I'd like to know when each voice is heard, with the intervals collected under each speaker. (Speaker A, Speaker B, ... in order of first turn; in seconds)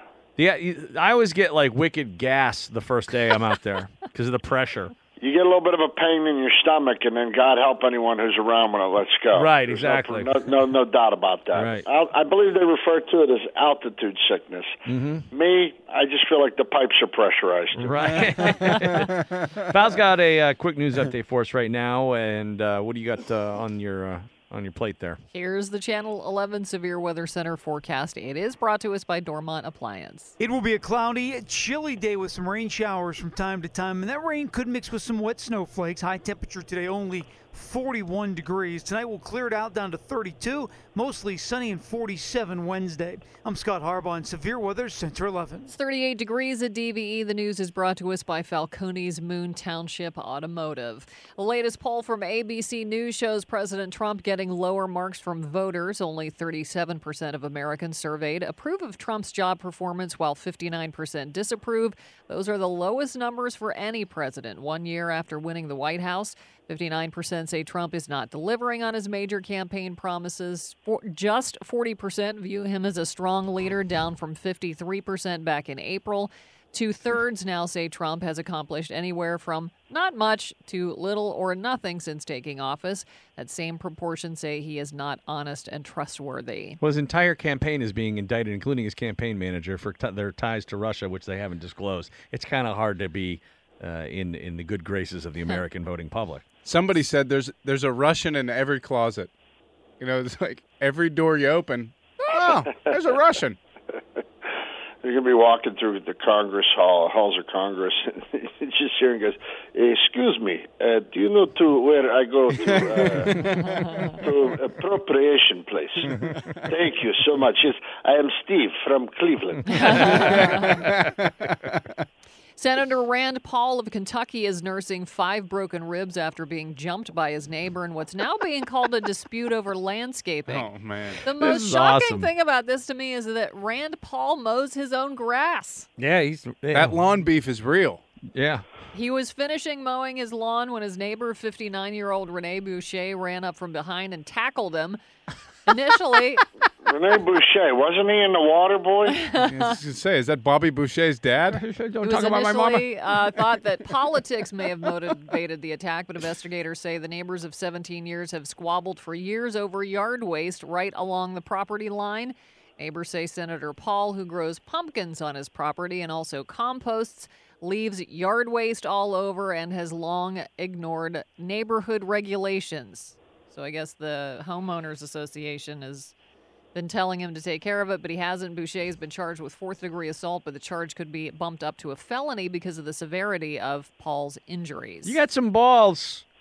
Speaker A: 0.4-4.9, 9.3-10.5, 11.5-11.8, 14.8-15.2, 17.8-25.2, 86.8-96.4, 131.2-132.3, 136.0-137.0, 138.3-138.6, 151.5-152.9, 185.0-186.2
Speaker B: 5.2-14.8, 15.3-18.9, 105.0-120.5, 146.8-149.3
Speaker C: 19.3-19.6, 96.6-99.3, 100.0-103.6, 112.7-114.1, 116.2-116.6, 120.2-121.9, 130.5-131.2, 136.7-138.0, 149.3-151.6
Speaker D: 25.3-30.3, 45.7-86.8, 102.2-102.6, 113.4-114.2, 119.7-120.8, 122.6-130.7, 131.2-135.9, 138.9-145.0, 145.7-146.4, 149.2-149.7, 152.0-176.1, 176.7-185.2
Speaker E: 30.4-45.7